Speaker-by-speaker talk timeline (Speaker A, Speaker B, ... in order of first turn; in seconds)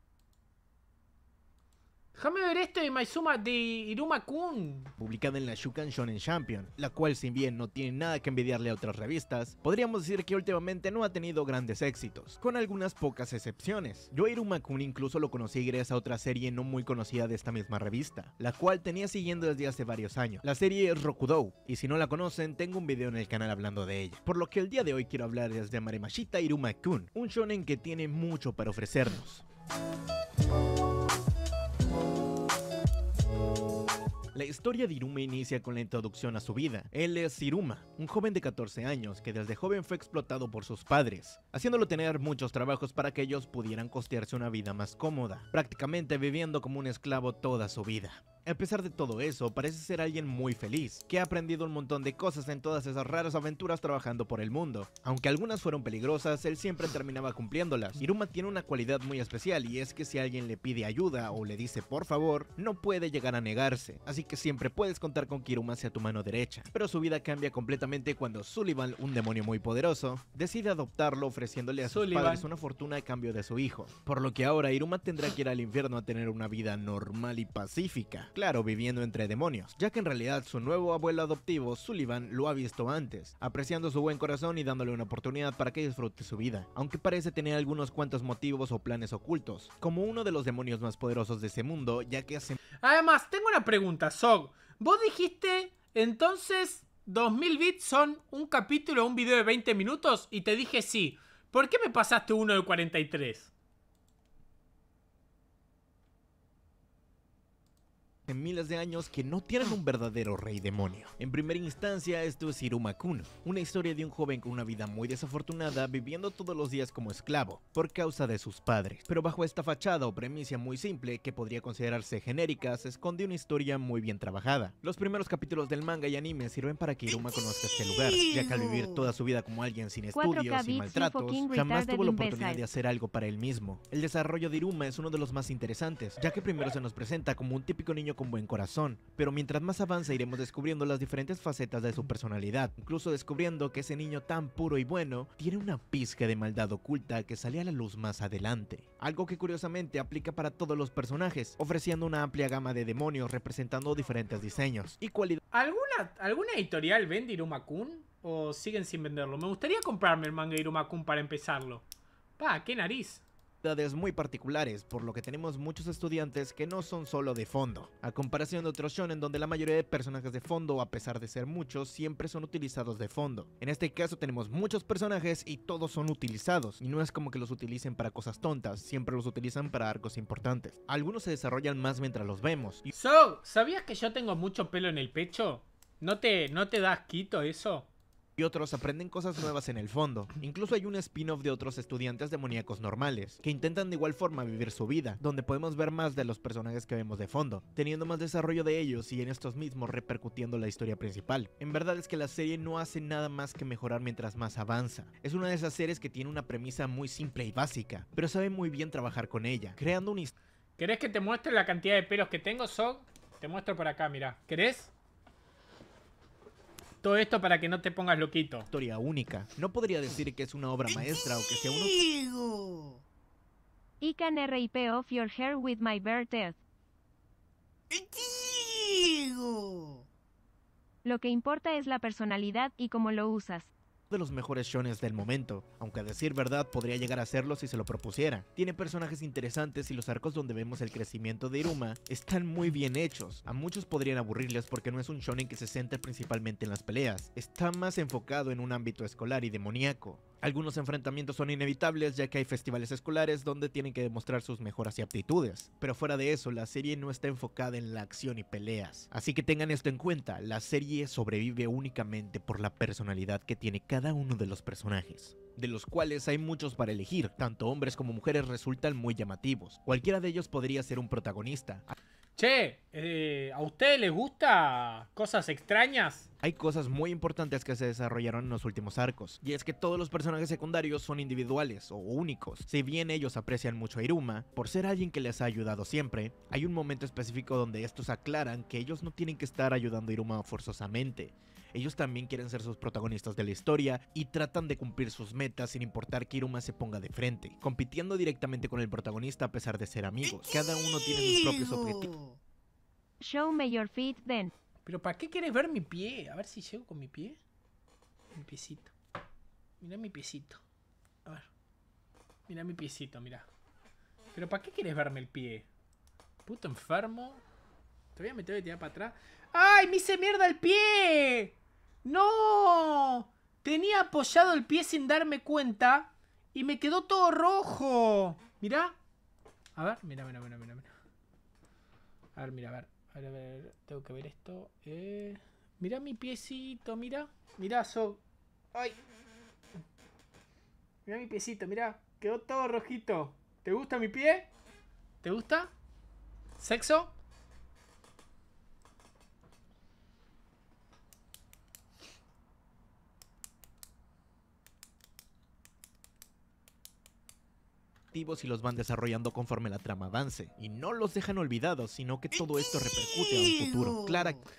Speaker A: 2.1-4.9, 71.8-72.5, 92.8-103.5, 155.5-161.8, 162.4-163.2, 182.9-187.9, 210.8-214.9, 217.0-218.7, 272.4-276.3, 304.9-307.4, 308.4-308.9, 309.8-310.6, 312.5-313.5, 314.3-315.7, 316.4-317.4, 318.2-328.9, 329.8-330.9, 332.4-338.2, 341.1-344.5, 345.2-345.7, 346.6-347.1
Speaker B: 5.0-29.4, 34.3-92.6, 108.3-155.4, 163.6-182.9, 188.4-210.3, 218.7-222.1, 234.1-271.9, 276.4-302.2, 358.1-364.4
Speaker C: 130.1-132.6, 224.0-226.6, 231.1-233.7, 303.2-304.5